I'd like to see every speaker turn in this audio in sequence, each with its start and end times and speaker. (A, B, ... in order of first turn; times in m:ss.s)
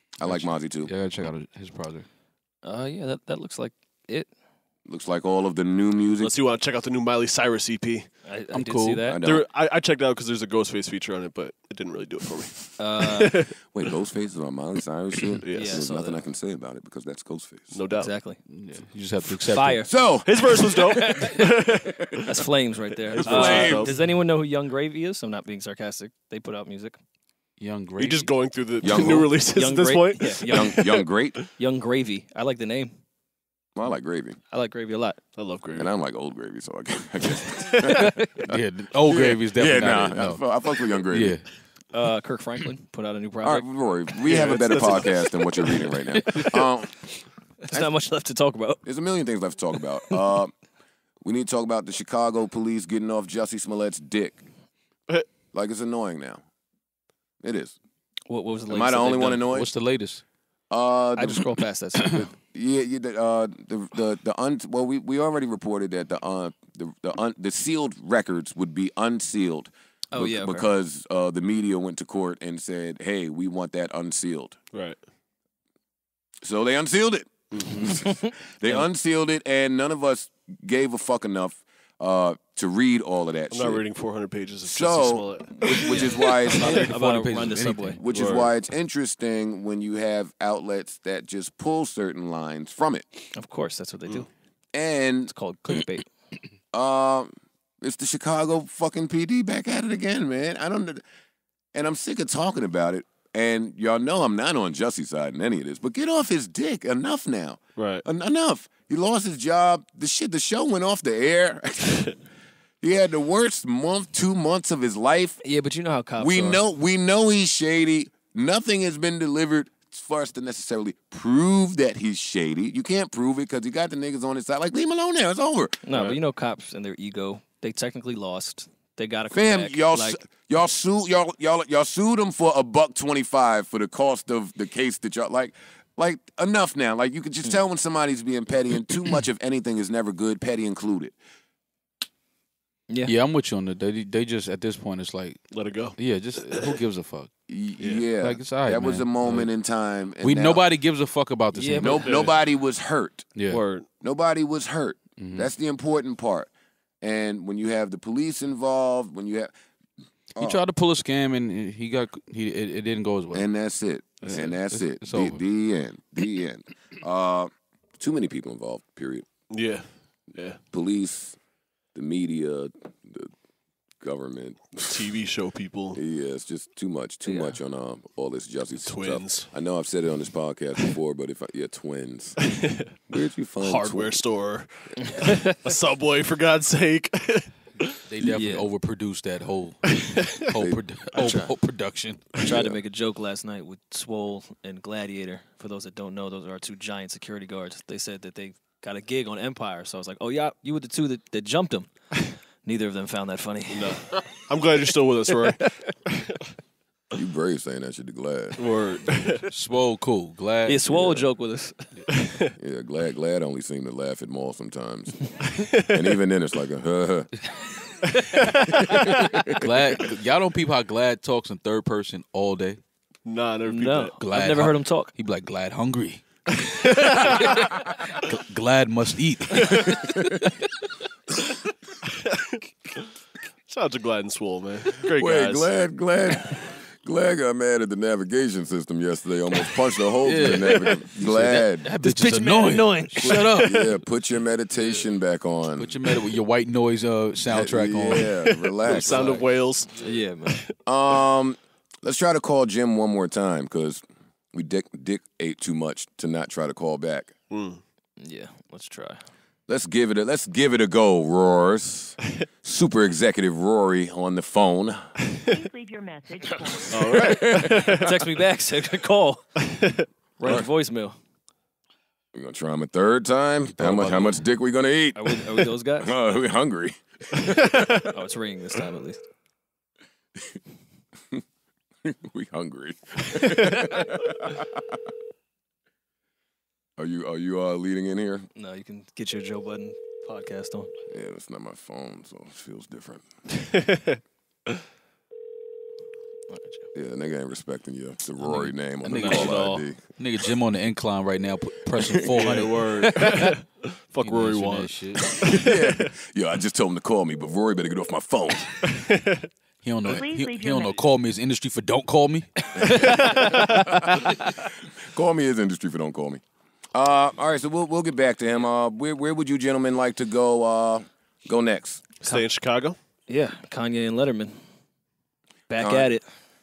0:00.2-0:00.9 A
0:00.2-0:02.0 B
0:02.6-0:04.3 C
0:04.9-0:06.3 A
0:06.2-0:08.1 D
0:08.2-0:09.2 C
0:08.5-0:09.0 B
0:09.0-0:09.5 A
0:09.2-0:13.6 D
0:12.8-0:13.4 C
0:13.7-0:17.7 A
0:15.2-0:15.8 D
0:15.5-0:16.2 C
0:17.7-0:18.1 D
0:18.0-0:18.4 C
0:18.4-0:19.9 B
0:19.5-0:19.9 C
0:19.9-0:20.8 A
0:20.2-0:22.3 D
0:20.9-0:21.4 C
0:22.3-0:27.0 C
0:23.1-0:23.9 A
0:23.1-0:23.9 D
0:27.6-0:28.3 B
0:28.0-0:31.0 D
0:28.8-0:29.3 A
0:29.5-0:32.9 C
0:30.5-0:31.4 A
0:33.7-0:34.4 A
0:34.5-0:35.2 C
0:35.4-0:35.9 D
0:35.8-0:41.4 A
0:37.8-0:38.3 C
0:38.5-0:40.4 B
0:41.1-0:41.4 B
0:41.9-0:43.6 C
0:43.4-0:47.1 A
0:44.2-0:45.5 D
0:47.6-0:48.8 C
0:48.8-0:50.5 A
0:51.2-0:54.4 A
0:55.5-0:56.4 A
0:57.4-0:57.8 A
0:58.3-0:59.4 C
0:58.7-0:59.7 A
0:59.5-1:00.2 B
1:00.7-1:14.6 A
1:01.2-1:02.2 C
1:10.1-1:10.6 C
1:14.7-1:15.0 D
1:16.4-1:23.8 A
1:17.5-1:17.8 D
1:18.0-1:18.8 C
1:23.5-1:26.9 D
1:24.6-1:26.9 A
1:26.6-1:28.0 C
1:26.6-1:28.0 B
1:28.0-1:33.0 A
1:28.1-1:28.5 D
1:33.3-1:34.3 C
1:34.7-1:35.3 A
1:35.3-1:36.0 C
1:36.7-1:41.0 A
1:41.7-1:52.1 A
1:47.8-1:48.0 D
1:52.8-1:55.4 A
1:55.4-1:56.6 C
1:56.2-2:05.8 A
2:05.8-2:10.2 C
2:09.3-2:21.2 A
2:23.0-2:27.3 B
2:25.5-2:26.7 D
2:27.5-2:30.6 A
2:27.8-2:28.1 D
2:28.2-2:29.5 B
2:30.2-2:32.2 B
2:31.5-2:32.1 C
2:31.8-2:33.3 A
2:32.0-2:32.3 D
2:33.3-2:33.6 B
2:33.5-2:33.9 D
2:34.0-2:36.5 A
2:35.2-2:35.5 B
2:37.0-2:39.5 A
2:40.4-2:43.4 B
2:43.3-2:49.2 A
2:44.2-2:44.4 D
2:44.3-2:45.4 B
2:49.5-2:50.6 D
2:50.7-2:51.4 A
2:51.9-2:53.3 A
2:54.0-2:55.1 A
2:54.8-2:56.0 D
2:55.9-3:02.5 A
2:57.2-2:57.6 C
2:58.8-2:59.5 D
3:02.4-3:02.9 D
3:03.1-3:04.1 A
3:03.6-3:08.0 D
3:05.0-3:05.5 C
3:08.1-3:12.4 B
3:08.2-3:08.5 A
3:08.3-3:08.7 C
3:11.2-3:11.5 C
3:12.4-3:21.9 C
3:12.4-3:12.8 A
3:22.6-3:24.0 C
3:23.7-3:26.3 D
3:27.1-3:28.6 A
3:28.6-3:29.4 D
3:29.5-3:31.0 B
3:30.6-3:31.8 C
3:32.2-3:32.5 D
3:32.6-3:37.3 A
3:35.5-3:36.0 D
3:38.8-3:39.6 A
3:39.5-3:42.8 B
3:43.2-3:44.2 D
3:43.7-3:45.1 C
3:44.2-3:50.3 B
3:49.6-3:50.5 A
3:52.2-3:53.1 D
3:53.7-3:55.7 D
3:55.0-4:01.9 A
4:00.2-4:04.0 B
4:02.0-4:03.9 C
4:03.2-4:06.0 A
4:05.8-4:08.4 B
4:07.5-4:09.4 A
4:08.8-4:10.7 D
4:10.0-4:10.6 C
4:10.8-4:17.3 A
4:17.5-4:17.8 D
4:18.2-4:19.2 C
4:19.7-4:25.0 A
4:25.3-4:25.6 D
4:25.5-4:27.3 E
4:26.9-4:28.2 D
4:27.0-4:28.1 A
4:27.4-4:29.4 C
4:29.6-4:30.0 D
4:30.4-4:31.2 C
4:30.4-4:30.7 A
4:32.3-4:38.0 A
4:33.9-4:34.2 C
4:35.1-4:36.1 C
4:37.5-4:38.0 D
4:38.0-4:39.2 C
4:42.0-4:45.1 A
4:47.0-4:48.5 A
4:48.6-4:50.9 C
4:51.1-4:53.2 A
4:53.5-4:54.8 D
4:56.5-4:56.8 C
4:56.9-5:00.0 A
4:59.0-4:59.8 C
4:59.1-5:03.5 B
5:01.9-5:02.5 A
5:02.3-5:06.1 D
5:04.2-5:05.6 B
5:05.4-5:08.8 A
5:08.8-5:09.5 D
5:09.8-5:14.2 B
5:10.0-5:11.1 E
5:13.0-5:14.4 C
5:13.1-5:13.6 D
5:13.7-5:16.4 A
5:16.9-5:22.0 A
5:22.2-5:23.0 D
5:23.3-5:24.6 C
5:25.7-5:26.2 C
5:25.8-5:26.1 A